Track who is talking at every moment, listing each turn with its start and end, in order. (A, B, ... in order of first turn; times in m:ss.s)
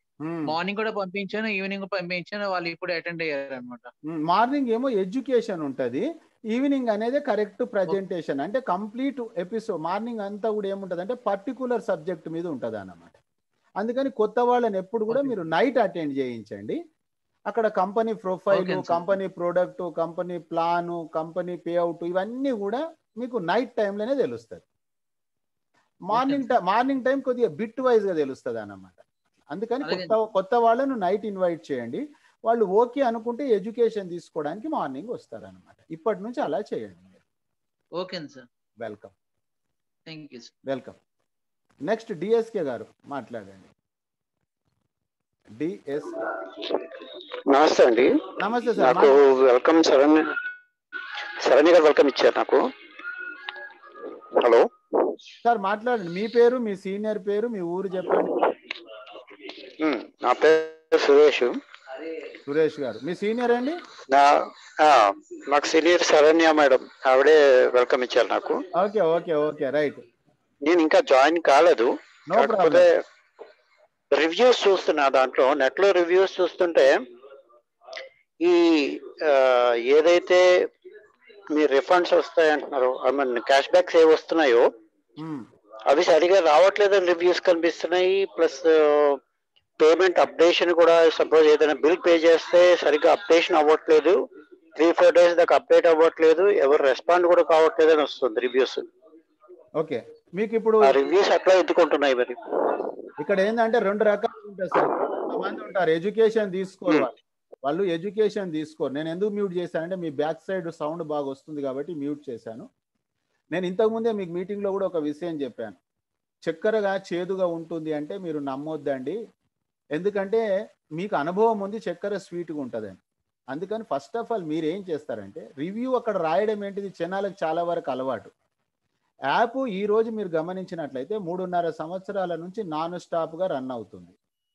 0:00.2-0:00.5 A
0:00.5-0:03.9 B
0:04.1-0:13.2 A
0:13.8-0:16.8 A
0:15.1-0:15.4 B
0:17.5-0:24.6 A
0:18.5-0:19.2 B
0:26.1-0:29.0 A
0:26.1-0:26.4 B
0:29.5-0:37.2 A
0:29.8-0:30.2 B
0:38.0-0:38.4 B
0:38.8-0:39.1 A
0:40.1-0:40.5 B
0:40.7-0:41.0 A
0:41.8-0:43.7 A
0:45.6-0:46.2 A
0:47.5-0:50.4 C
0:48.4-0:49.2 A
0:51.4-0:52.6 C
0:54.4-0:54.7 C
0:55.4-0:58.3 A
0:59.8-1:01.6 C
1:02.4-1:03.8 A
1:04.1-1:08.6 C
1:08.7-1:10.0 A
1:10.6-1:13.0 C
1:12.3-1:12.9 A
1:14.1-1:17.0 C
1:18.4-1:20.6 C
1:21.5-1:24.7 C
1:25.2-1:25.5 A
1:25.9-1:29.2 C
1:29.8-1:34.2 C
1:34.8-1:38.8 C
1:39.8-1:41.0 A
1:40.8-1:42.7 C
1:43.2-1:52.7 A
1:44.8-1:45.1 C
1:53.5-1:55.8 A
1:56.4-1:59.2 A
1:59.9-2:00.4 A
2:01.0-2:03.0 A
2:03.5-2:08.3 A
2:09.3-2:14.1 A